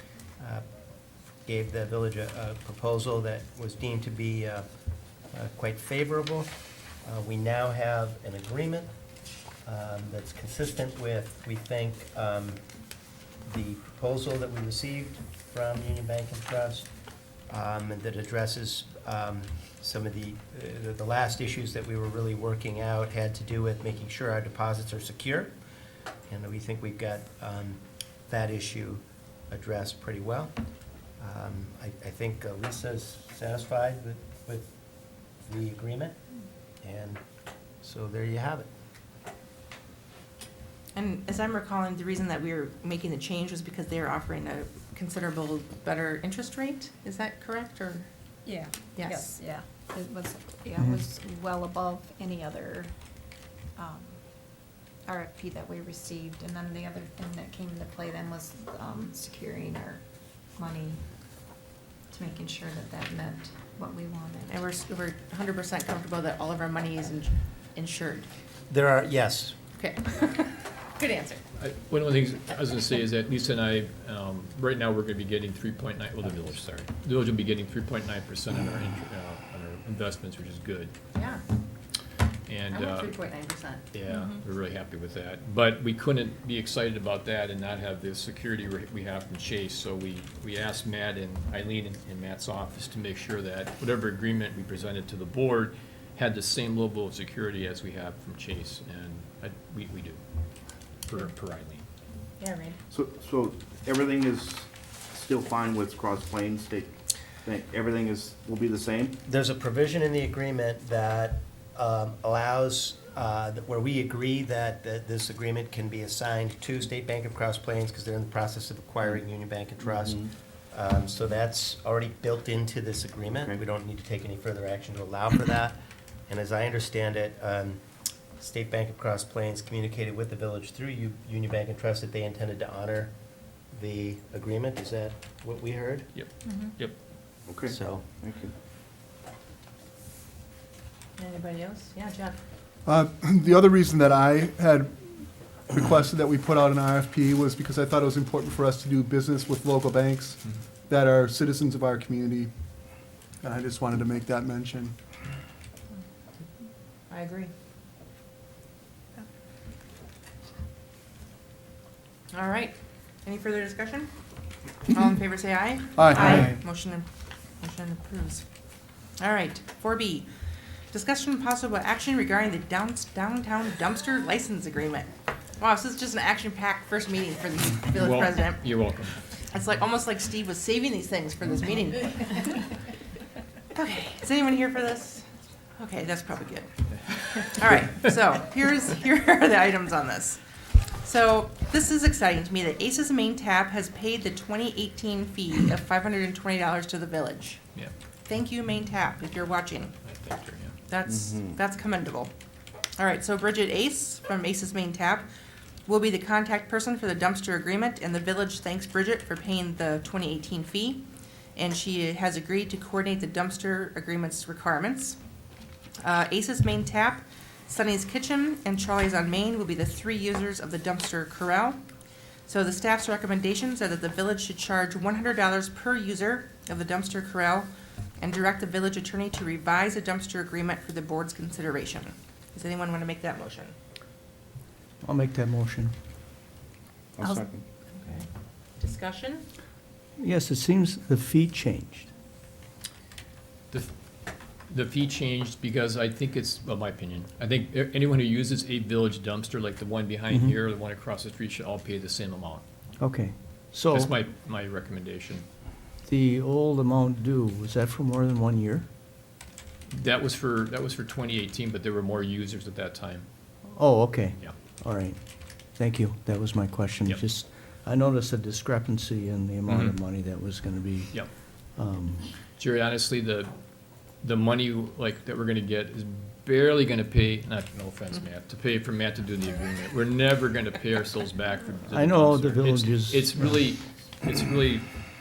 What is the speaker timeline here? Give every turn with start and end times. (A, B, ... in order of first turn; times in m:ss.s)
0:01.4-0:04.6 A
0:05.3-0:06.5 A
0:07.0-0:08.9 A
0:09.6-0:12.6 A
0:13.4-0:16.9 A
0:17.5-0:25.5 A
0:26.3-0:30.5 A
0:31.2-0:34.7 A
0:35.4-0:36.2 A
0:36.8-0:37.2 A
0:37.8-0:38.7 A
0:40.9-0:48.1 B
0:48.4-0:52.9 C
0:49.0-0:49.4 B
0:53.8-0:54.2 C
0:55.1-1:00.0 C
1:00.6-1:01.0 C
1:02.1-1:04.6 C
1:04.5-1:08.3 B
1:08.7-1:09.6 A
1:09.8-1:11.4 B
1:11.6-1:20.9 D
1:21.1-1:21.4 B
1:22.5-1:23.1 D
1:22.7-1:24.4 B
1:23.9-1:40.2 D
1:41.1-1:41.8 D
1:42.4-1:42.8 B
1:42.9-1:46.9 E
1:47.4-1:49.2 E
1:49.2-2:05.8 A
1:59.8-2:00.3 E
2:06.3-2:07.8 A
2:08.4-2:13.1 A
2:13.7-2:16.1 A
2:16.1-2:16.9 D
2:16.4-2:16.7 B
2:17.5-2:18.5 E
2:17.7-2:18.0 A
2:21.2-2:22.4 B
2:22.8-2:32.5 F
2:33.4-2:34.9 F
2:37.1-2:37.5 B
2:42.3-2:44.1 B
2:44.9-2:47.1 B
2:45.9-2:46.6 F
2:47.6-2:48.4 B
2:49.2-2:50.3 B
2:50.9-2:58.8 B
2:58.0-2:59.2 D
2:59.5-3:02.8 B
3:03.7-3:05.2 B
3:05.8-3:10.4 B
3:11.0-3:17.6 B
3:18.3-3:19.9 B
3:20.0-3:20.8 D
3:20.9-3:22.3 B
3:21.1-3:21.5 E
3:23.0-3:25.3 B
3:25.9-3:31.0 B
3:31.6-3:35.2 B
3:36.0-3:41.8 B
3:42.5-3:53.7 B
3:55.0-3:55.9 G
3:57.2-3:57.6 E
3:57.9-3:58.3 B
3:58.8-3:59.4 B
4:00.2-4:02.1 G
4:04.7-4:12.6 D
4:10.3-4:10.6 G
4:13.0-4:14.2 G
4:13.9-4:15.4 D
4:16.0-4:18.9 G
4:19.9-4:23.3 D
4:23.7-4:32.3 G
4:29.7-4:29.9 D
4:32.6-4:33.5 D
4:34.2-4:44.9 D
4:41.9-4:43.6 G